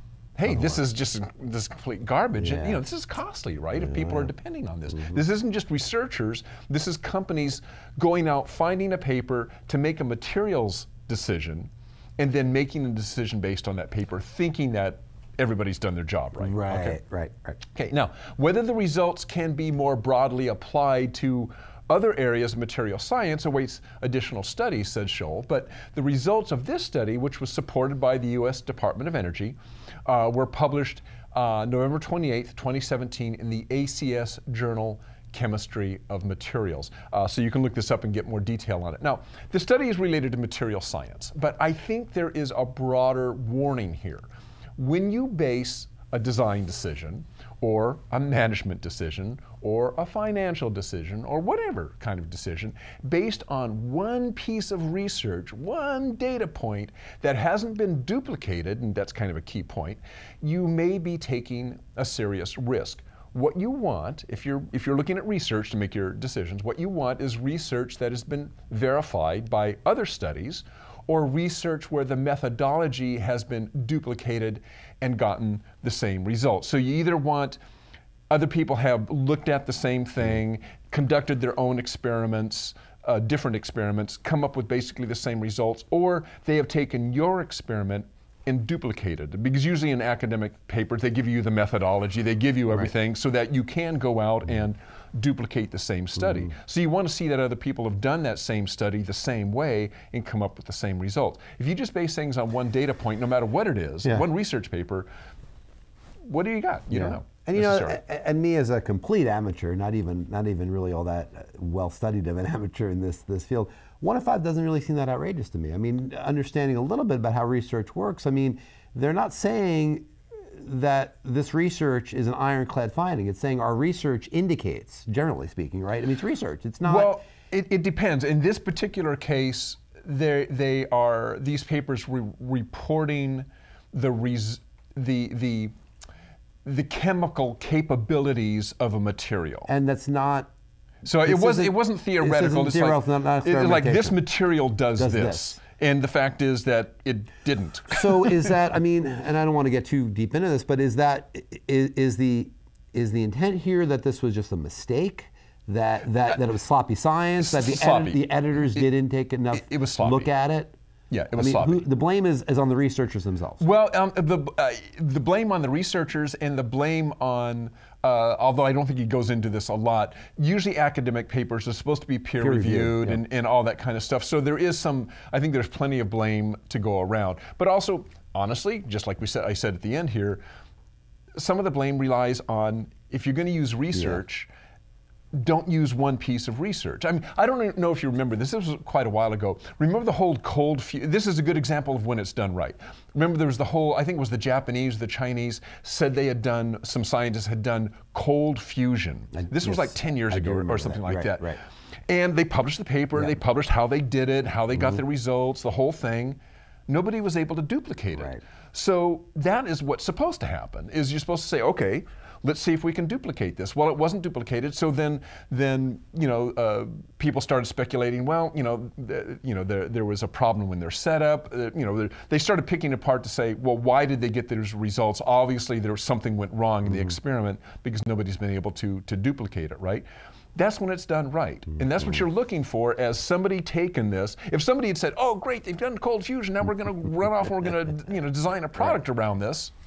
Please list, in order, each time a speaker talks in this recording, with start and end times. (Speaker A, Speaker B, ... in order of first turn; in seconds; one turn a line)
Speaker A: 0.4-17.0
Speaker B: 2.4-2.8
Speaker B: 16.4-17.6
Speaker A: 17.7-77.6
Speaker A: 78.3-105.1
Speaker A: 106.2-108.0
Speaker B: 106.9-127.1
Speaker A: 126.8-135.7
Speaker A: 136.6-139.7
Speaker B: 139.7-140.5
Speaker A: 141.0-148.5
Speaker B: 141.2-144.2
Speaker B: 144.9-145.6
Speaker B: 147.9-160.8
Speaker A: 157.4-158.8
Speaker A: 159.5-160.3
Speaker A: 161.1-161.9
Speaker B: 161.3-163.6
Speaker A: 163.6-180.4
Speaker B: 172.4-173.2
Speaker A: 181.4-184.5
Speaker A: 185.3-201.6
Speaker B: 199.4-201.6
Speaker A: 202.1-239.7